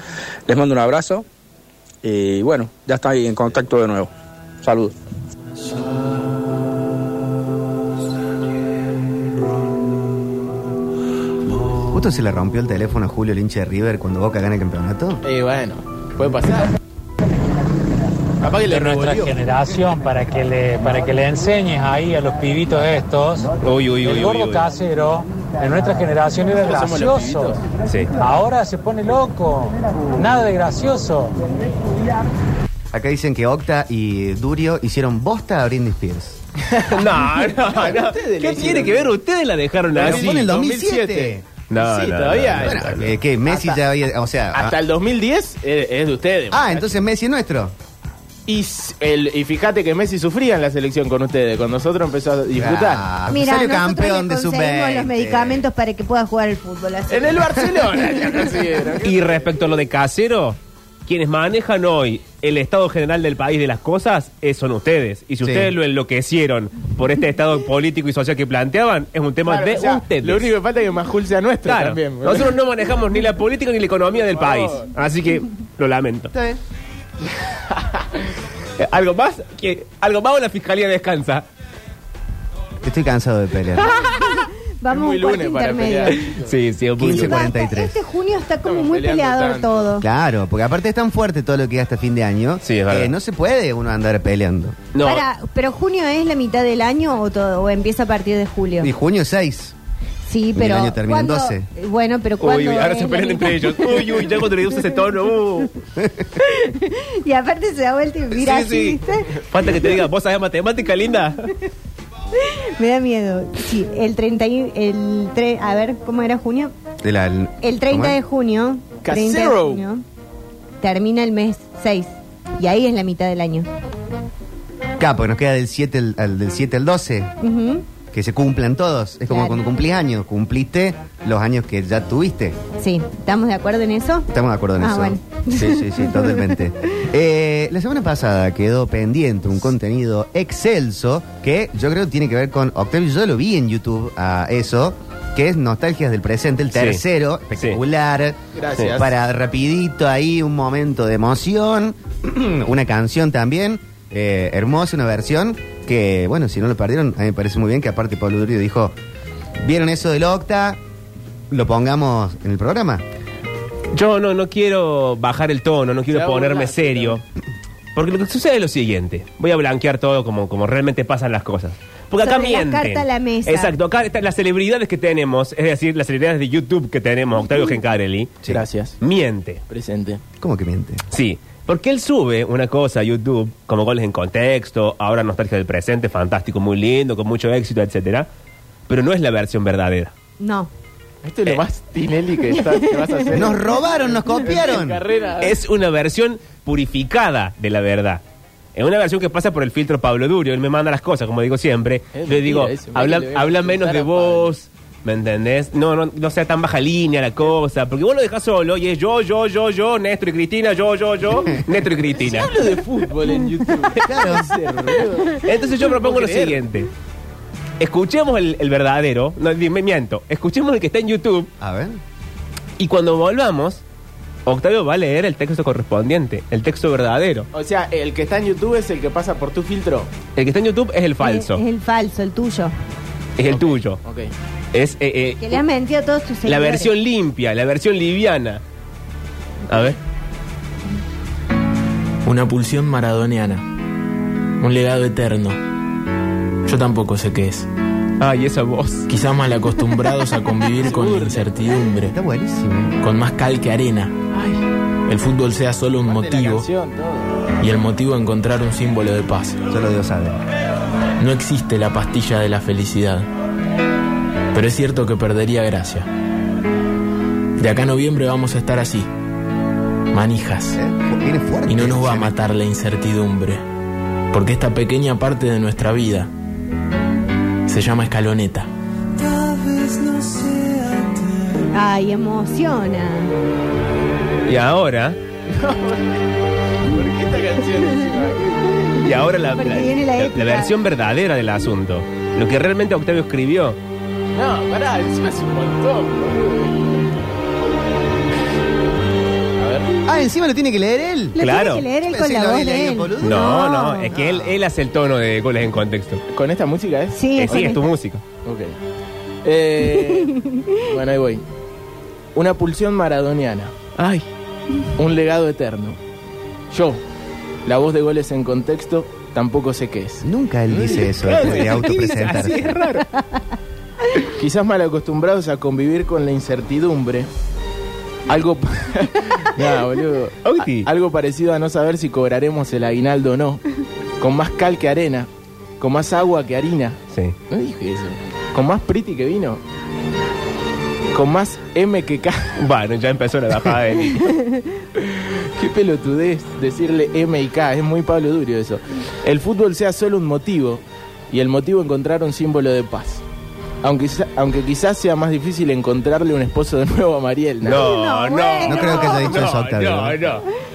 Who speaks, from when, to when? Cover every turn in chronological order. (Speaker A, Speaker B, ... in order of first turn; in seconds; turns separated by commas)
Speaker A: 0.5-1.3, Speaker A: 2.0-5.0, Speaker B: 11.9-15.2, Speaker C: 15.2-16.7, Speaker C: 18.4-19.4, Speaker D: 18.7-23.5, Speaker E: 23.6-24.7, Speaker D: 24.0-27.6, Speaker C: 26.6-27.6, Speaker E: 27.9-28.1, Speaker D: 28.2-31.4, Speaker B: 32.9-36.4, Speaker C: 36.6-39.2, Speaker E: 36.9-40.5, Speaker C: 39.9-43.8, Speaker B: 40.0-41.5, Speaker E: 41.7-43.2, Speaker B: 42.6-44.8, Speaker C: 44.5-47.0, Speaker B: 46.5-47.8, Speaker C: 48.5-53.1, Speaker B: 52.6-55.6, Speaker F: 53.3-57.5, Speaker C: 57.1-59.5, Speaker E: 59.0-70.5, Speaker B: 65.4-65.7, Speaker C: 69.5-72.6, Speaker E: 71.7-76.3, Speaker C: 74.1-74.9, Speaker B: 76.3-76.6, Speaker E: 78.8-81.5, Speaker B: 82.8-83.9, Speaker F: 83.8-86.3, Speaker C: 84.9-86.6, Speaker E: 86.1-87.4, Speaker B: 87.0-88.0, Speaker F: 87.2-90.1, Speaker C: 88.6-89.9, Speaker B: 90.0-94.8, Speaker E: 92.6-93.1, Speaker E: 94.9-95.2, Speaker F: 95.0-98.9, Speaker B: 98.8-99.8, Speaker F: 100.2-104.9, Speaker B: 100.5-101.7, Speaker E: 102.4-105.7, Speaker B: 106.0-106.3, Speaker F: 106.4-109.4, Speaker E: 108.3-111.5, Speaker F: 112.8-116.7, Speaker B: 117.0-118.2, Speaker F: 117.6-120.0, Speaker C: 119.0-119.8, Speaker F: 120.8-123.7, Speaker B: 125.0-127.3, Speaker F: 127.4-127.8, Speaker B: 128.1-132.6, Speaker F: 129.3-129.6, Speaker F: 132.8-136.6, Speaker B: 134.3-148.4, Speaker E: 146.8-147.0, Speaker E: 147.6-147.8, Speaker C: 148.5-149.2, Speaker B: 148.9-159.0, Speaker B: 159.6-160.8, Speaker B: 161.5-163.0, Speaker E: 163.9-167.2, Speaker C: 166.1-167.2, Speaker E: 167.9-178.4, Speaker F: 172.2-173.8, Speaker C: 178.5-179.0, Speaker E: 179.0-179.6, Speaker C: 179.7-180.2, Speaker B: 180.4-181.0, Speaker E: 181.1-188.3, Speaker E: 188.9-190.1, Speaker F: 190.4-190.7, Speaker C: 191.2-195.6, Speaker F: 192.7-193.0, Speaker B: 193.3-195.0, Speaker E: 195.4-198.2, Speaker E: 198.8-212.5, Speaker C: 202.1-204.6, Speaker C: 212.2-216.6, Speaker B: 214.1-214.5, Speaker E: 215.3-216.9, Speaker E: 217.8-221.5, Speaker B: 221.6-222.0, Speaker E: 222.8-223.8, Speaker E: 224.5-227.5, Speaker C: 227.5-230.1, Speaker E: 230.3-231.6, Speaker F: 231.2-232.7, Speaker E: 233.4-234.0, Speaker C: 233.5-234.3, Speaker E: 234.7-235.6, Speaker F: 235.4-236.9, Speaker E: 236.4-238.6, Speaker E: 239.7-240.0, Speaker G: 242.2-243.7, Speaker G: 244.6-245.6, Speaker G: 246.7-247.7, Speaker E: 248.2-249.1, Speaker G: 249.1-252.2, Speaker C: 250.6-251.8, Speaker B: 252.1-252.9, Speaker G: 253.0-254.3, Speaker G: 255.1-256.7, Speaker C: 256.0-257.5, Speaker G: 257.6-259.6, Speaker B: 259.7-260.4, Speaker G: 261.2-263.3, Speaker G: 264.5-266.1, Speaker G: 267.6-269.1, Speaker G: 270.1-270.8, Speaker B: 270.8-272.4, Speaker G: 271.7-273.6, Speaker G: 274.3-276.3, Speaker G: 277.7-278.7, Speaker C: 279.4-281.2, Speaker F: 281.7-283.3, Speaker E: 284.5-285.2, Speaker C: 285.5-286.2, Speaker C: 286.9-288.8, Speaker E: 288.9-293.8, Speaker F: 289.3-290.7, Speaker C: 294.3-296.9, Speaker C: 299.6-299.9, Speaker B: 300.1-301.4, Speaker F: 301.4-304.2, Speaker E: 301.4-301.9, Speaker B: 302.0-304.6, Speaker E: 303.2-306.2, Speaker C: 306.3-307.8, Speaker F: 307.1-307.9, Speaker E: 307.3-308.2, Speaker C: 308.4-308.8, Speaker C: 309.4-311.4, Speaker F: 310.5-310.8, Speaker C: 312.4-313.7, Speaker E: 314.0-314.3, Speaker C: 315.0-316.0, Speaker C: 316.7-317.0, Speaker C: 317.7-322.4, Speaker B: 320.2-322.8, Speaker E: 321.2-323.2, Speaker C: 324.3-327.3, Speaker C: 328.3-333.6, Speaker E: 330.4-330.9, Speaker C: 334.2-335.3, Speaker C: 335.8-337.0, Speaker C: 337.5-339.6, Speaker C: 341.1-342.5, Speaker E: 342.6-344.4, Speaker C: 345.0-353.2, Speaker C: 353.8-357.9, Speaker E: 357.6-360.4, Speaker F: 357.8-359.4, Speaker B: 358.6-360.2